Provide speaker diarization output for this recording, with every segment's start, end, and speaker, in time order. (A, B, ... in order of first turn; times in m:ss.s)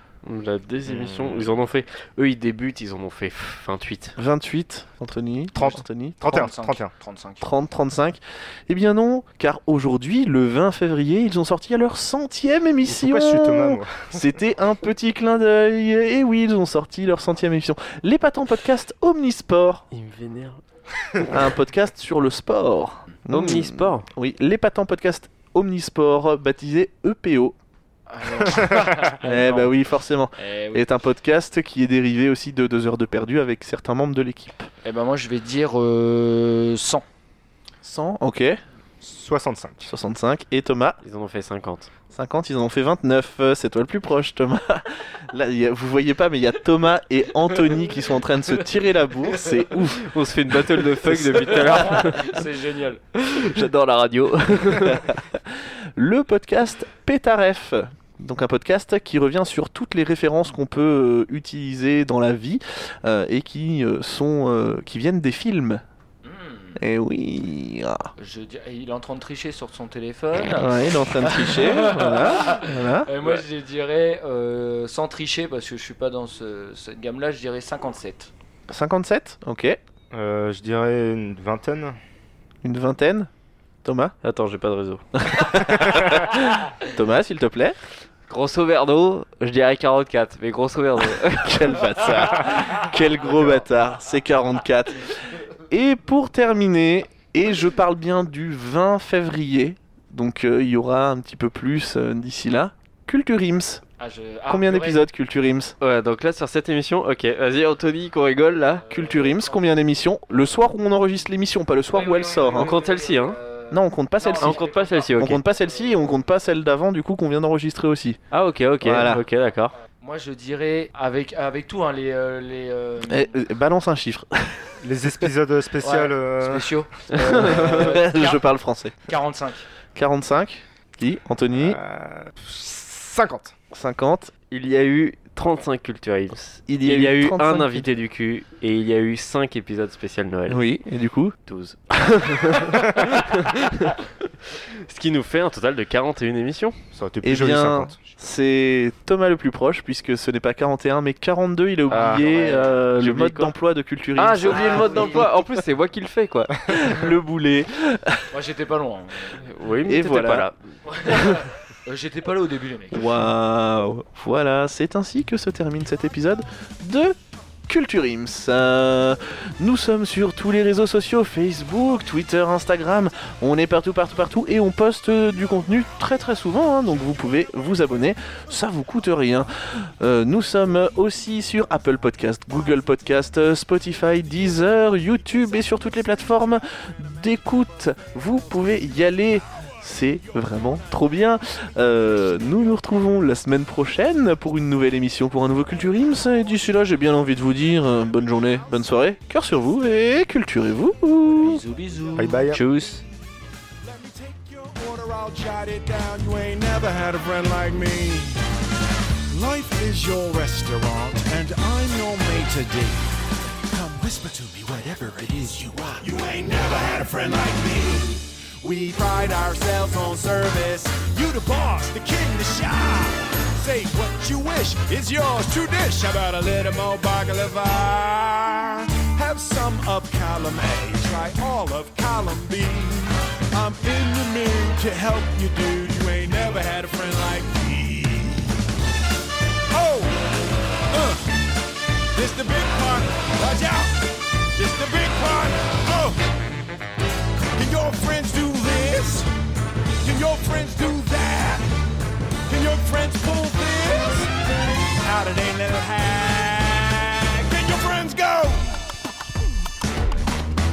0:00.2-0:04.2 A
0:00.8-0:01.5 B
0:04.2-0:06.2 C
0:05.5-0:06.9 B
0:06.2-0:07.4 D
0:07.4-0:19.8 C
0:12.8-0:14.2 B
0:19.9-0:20.6 A
0:21.3-0:27.6 C
0:23.3-0:24.0 A
0:28.1-0:29.7 D
0:29.2-0:34.7 C
0:30.4-0:30.9 D
0:34.8-0:37.0 D
0:37.8-0:38.6 C
0:39.0-0:39.9 B
0:39.8-0:41.0 C
0:41.0-0:41.9 A
0:42.1-0:52.2 C
0:50.0-0:52.3 A
0:51.6-0:53.0 D
0:53.2-0:55.0 A
0:54.3-1:05.8 C
1:06.2-1:06.8 D
1:06.8-1:08.1 C
1:08.2-1:18.3 D
1:10.4-1:13.1 C
1:18.7-1:19.8 C
1:20.1-1:22.0 B
1:22.6-1:23.3 C
1:23.8-1:24.1 C
1:24.2-1:25.0 A
1:25.2-1:27.8 C
1:28.3-1:32.2 A
1:31.3-1:43.8 C
1:44.0-1:45.0 D
1:44.5-1:45.7 C
1:45.8-1:48.8 A
1:48.8-1:49.6 D
1:48.9-1:52.7 C
1:51.9-1:56.0 D
1:52.5-1:53.4 A
1:53.7-1:54.6 C
1:54.4-1:55.4 A
1:55.2-1:58.2 C
1:58.3-1:59.7 A
1:58.8-1:59.2 C
2:00.0-2:03.4 D
2:03.0-2:04.7 C
2:04.8-2:06.7 B
2:05.8-2:08.4 D
2:07.2-2:09.0 C
2:09.1-2:09.6 D
2:09.9-2:11.8 C
2:11.5-2:13.5 B
2:13.7-2:14.3 C
2:14.5-2:20.6 A
2:16.6-2:17.9 C
2:20.5-2:21.3 C
2:21.5-2:24.0 A
2:21.9-2:22.9 C
2:24.5-2:26.7 A
2:26.9-2:28.1 B
2:27.2-2:35.3 C
2:31.9-2:32.2 A
2:31.9-2:32.8 D
2:33.0-2:33.5 A
2:34.2-2:36.7 A
2:34.5-2:35.3 D
2:36.7-2:38.3 C
2:38.3-2:39.4 D
2:39.4-2:40.6 A
2:39.8-2:40.5 C
2:40.9-2:43.2 D
2:42.9-2:47.2 C
2:47.7-3:21.6 C
3:21.4-3:22.4 D
3:22.2-3:22.6 B
3:22.5-3:23.0 A
3:23.8-3:28.4 E
3:29.3-3:33.0 E
3:33.7-3:58.5 E
3:59.7-4:00.2 E
4:00.9-4:01.2 E
4:02.1-4:04.0 E
4:04.6-4:06.2 E
4:07.6-4:09.3 E
4:10.0-4:11.7 E
4:12.5-4:18.7 E